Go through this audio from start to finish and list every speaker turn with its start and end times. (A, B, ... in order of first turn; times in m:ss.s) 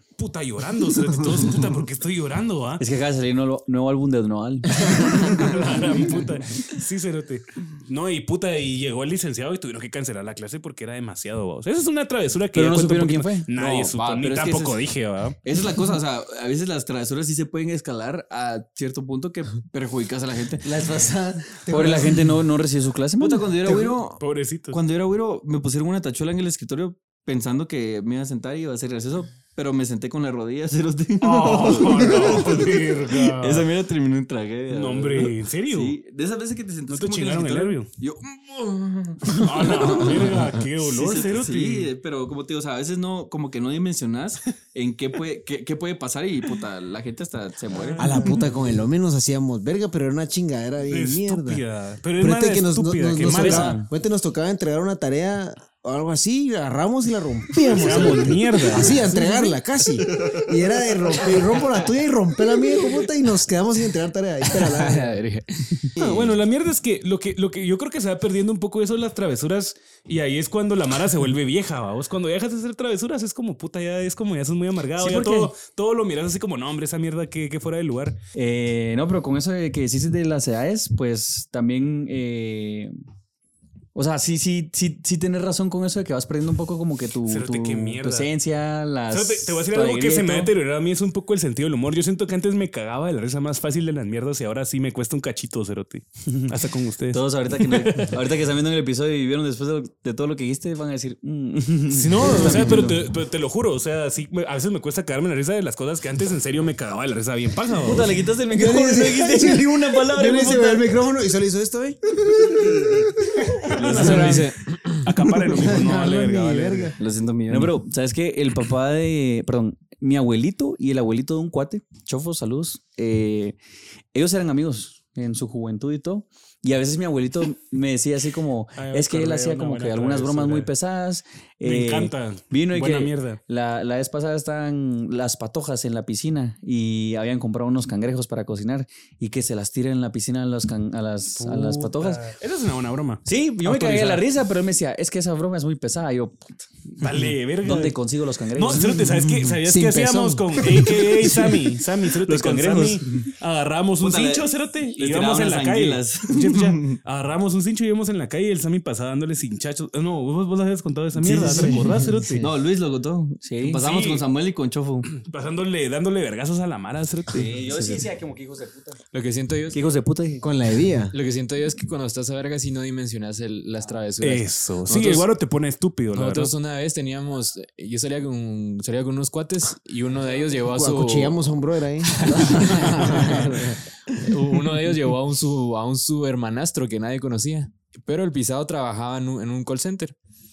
0:00.2-0:02.8 A
0:02.8-0:05.4 B
0:04.8-0:15.4 A
0:12.5-0:13.5 B
0:13.6-0:14.8 C
0:15.4-0:20.7 C
0:20.6-0:22.4 D
0:21.7-0:23.6 B
0:23.2-0:48.4 C
0:23.7-0:23.9 D
0:24.0-0:24.8 A
0:31.2-0:33.7 A
0:34.7-0:36.0 A
0:36.9-0:37.9 A
0:39.3-0:41.9 A
0:40.2-0:40.6 D
0:47.7-0:48.6 A
0:48.0-0:51.6 D
0:50.9-0:53.8 A
0:52.2-1:05.2 D
0:53.2-0:53.9 B
0:57.8-0:59.1 A
0:58.9-0:59.5 C
1:00.1-1:01.8 C
1:04.6-1:05.9 E
1:06.0-1:06.4 D
1:06.0-1:18.2 A
1:15.0-1:15.5 B
1:18.4-1:22.9 B
1:24.0-1:30.5 B
1:27.3-1:28.3 A
1:29.1-1:38.2 A
1:37.1-1:43.0 B
1:41.9-1:48.2 A
1:47.8-1:50.9 B
1:48.5-1:57.0 D
1:53.7-1:56.9 A
1:53.8-1:54.4 C
1:53.9-1:54.6 E
1:57.0-1:57.7 C
1:57.5-2:03.6 B
2:04.1-2:22.4 B
2:08.8-2:10.7 A
2:11.6-2:13.4 A
2:21.4-2:24.2 A
2:23.3-2:27.0 B
2:27.0-2:28.0 A
2:27.6-2:29.0 B
2:28.5-2:42.5 A
2:29.6-2:31.7 D
2:32.3-2:33.0 C
2:34.0-2:37.0 C
2:41.2-2:42.5 D
2:41.4-2:41.8 C
2:42.4-2:45.1 C
2:43.4-2:43.8 B
2:43.8-2:44.2 A
2:45.1-2:47.6 A
2:47.3-2:49.0 B
2:49.1-2:49.8 E
2:49.7-2:50.4 B
2:50.4-2:51.1 D
2:51.1-2:55.3 E
2:54.2-2:56.5 A
2:56.1-3:01.5 E
3:00.6-3:04.2 D
3:02.0-3:10.1 E